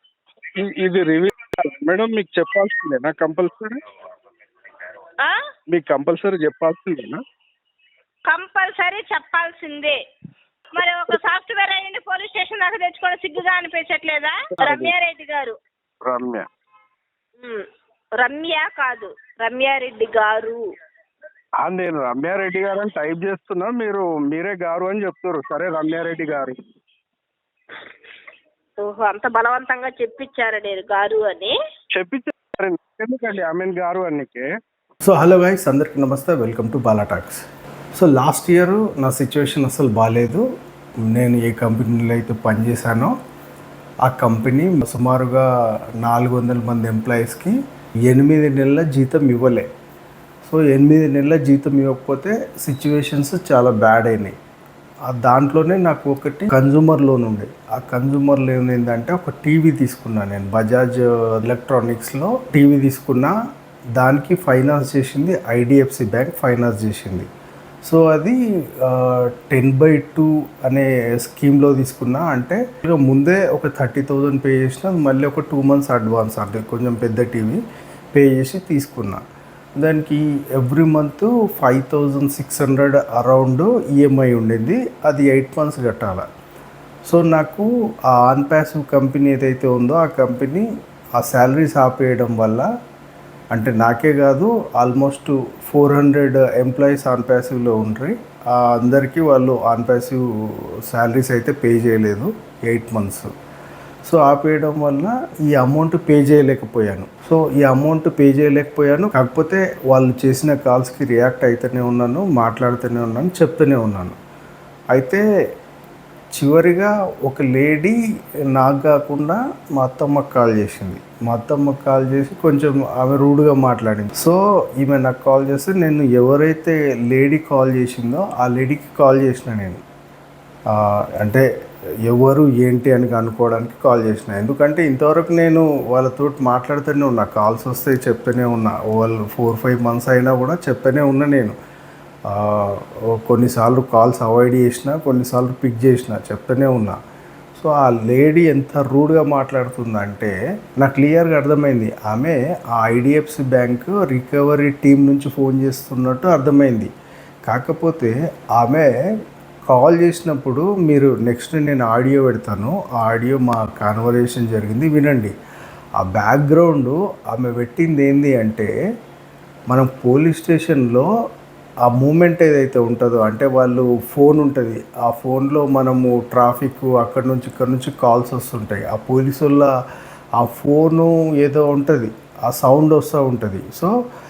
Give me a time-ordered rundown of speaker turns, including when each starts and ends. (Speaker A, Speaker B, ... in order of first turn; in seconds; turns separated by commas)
Speaker A: 0.6-3.8, Speaker A: 5.7-7.2, Speaker B: 8.3-10.0, Speaker B: 10.7-15.6, Speaker A: 14.6-14.9, Speaker A: 16.1-16.4, Speaker B: 17.4-17.6, Speaker B: 18.2-20.6, Speaker A: 21.6-26.6, Speaker B: 28.8-31.5, Speaker A: 31.9-34.5, Speaker C: 35.0-37.4, Speaker C: 38.0-40.5, Speaker C: 41.0-43.1, Speaker C: 44.0-45.5, Speaker C: 46.0-49.7, Speaker C: 50.5-54.3, Speaker C: 55.1-63.3, Speaker C: 64.0-67.3, Speaker C: 67.9-77.6, Speaker C: 78.1-79.2, Speaker C: 79.8-86.2, Speaker C: 87.1-90.7, Speaker C: 91.2-92.7, Speaker C: 93.5-103.3, Speaker C: 104.0-114.2, Speaker C: 114.9-115.2, Speaker C: 116.3-118.0, Speaker C: 118.5-129.8, Speaker C: 130.7-131.4, Speaker C: 132.0-141.6, Speaker C: 142.3-147.0, Speaker C: 147.6-156.9, Speaker C: 157.5-158.9, Speaker C: 159.7-165.3, Speaker C: 166.0-168.7, Speaker C: 169.7-171.1, Speaker C: 171.9-179.7, Speaker C: 180.4-183.9